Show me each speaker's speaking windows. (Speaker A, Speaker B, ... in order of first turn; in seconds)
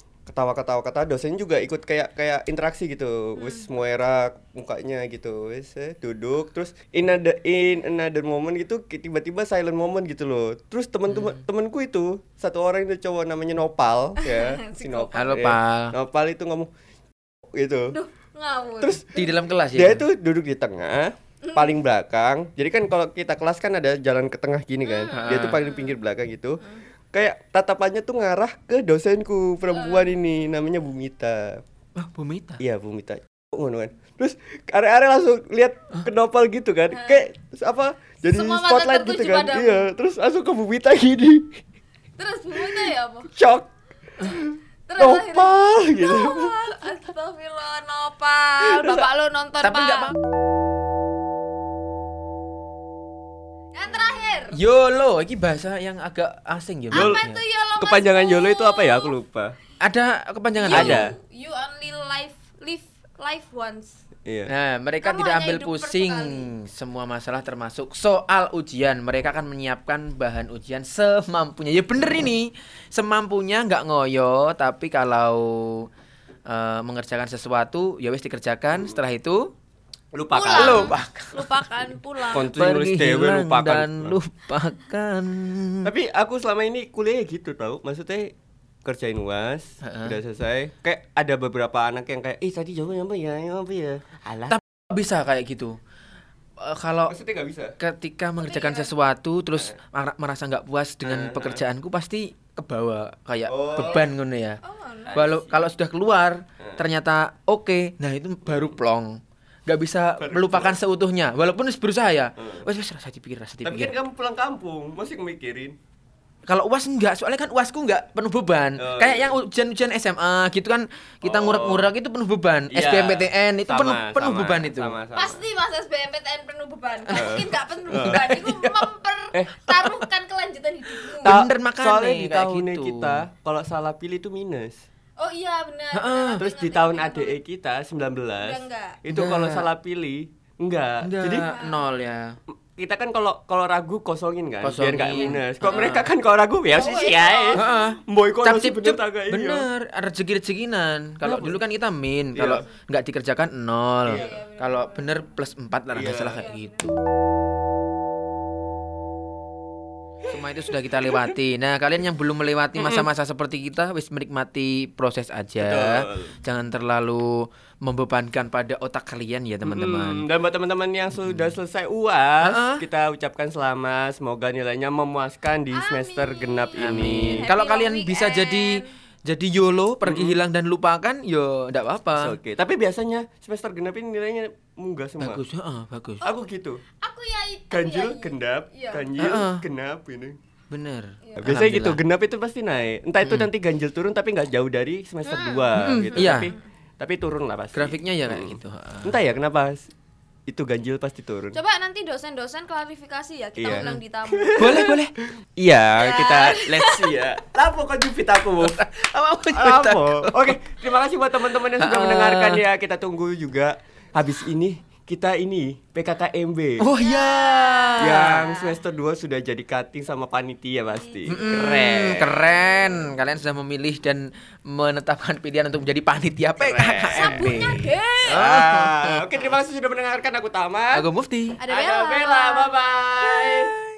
Speaker A: 0.3-16.7, 17.5-17.9, 18.8-19.2, 19.7-31.6, 32.6-41.5, 42.7-46.5, 48.7-49.0, 56.9-57.2, 57.8-59.5, 60.7-61.1, 64.2-64.5, 80.1-81.0, 82.3-84.2, 85.8-88.3, 88.8-94.6, 97.1-97.8, 101.0-101.6, 103.5-104.1, 105.1-105.7, 108.4-108.7, 110.2-110.8, 112.4-112.7, 113.6-115.8, 118.8-119.4, 121.2-121.9, 122.7-125.4, 127.1-128.3, 131.2-134.8, 136.4-141.5, 142.8-149.7, 151.2-151.6, 152.3-152.7, 155.9-156.4, 162.8-163.1, 165.6-166.3, 169.6-177.5, 180.0-180.4, 182.2-185.4, 186.2-186.8, 187.7-190.4, 191.4-199.9, 200.5-201.6, 203.6-204.9, 205.6-208.8, 209.5-216.9, 218.0-222.9, 226.6-227.6, 228.2-231.1, 231.7-233.7
Speaker B: 3.4-3.7, 14.2-15.3, 17.9-19.2, 21.4-21.8, 24.9-26.0, 29.7-30.1, 36.9-37.2, 38.3-39.9, 42.2-43.3, 44.9-50.1, 53.7-54.6, 56.9-59.1, 60.5-64.0, 65.0-66.5, 80.3-82.5, 98.4-98.9, 103.7-104.0, 104.6-105.3, 125.1-131.4, 135.2-137.4, 138.4-139.0, 141.3-141.9, 145.0-145.9, 146.7-147.9, 154.1-155.2, 156.1-156.8, 175.7-178.9, 187.0-189.1, 195.2-196.7, 201.5-204.9, 206.0-207.2, 217.0-218.8, 220.9-221.8, 227.1-228.4, 231.6-232.7
Speaker C: 11.1-11.4, 15.1-15.9, 19.1-20.0, 25.1-25.6, 31.9-32.6, 49.6-50.1, 54.5-57.4, 59.8-61.0, 64.5-75.9, 76.5-79.5, 80.5-81.6, 82.4-85.9, 89.8-90.2, 94.5-95.8, 96.6-97.1, 97.8-104.6, 105.1-113.9, 116.5-125.0, 127.9-128.8, 129.7-130.0, 131.1-133.2, 135.9-136.4, 139.1-139.7, 141.0-142.4, 144.6-146.1, 147.6-156.9, 160.2-170.2, 171.2-171.5, 172.4-172.8, 176.8-182.4, 185.2-186.2, 189.2-189.6, 190.7-192.0, 193.2-193.5, 195.8-196.5, 197.7-199.2, 203.7-204.0, 204.6-205.1, 208.6-210.6, 211.7-212.6, 216.8-218.4, 221.3-229.5, 230.9-231.6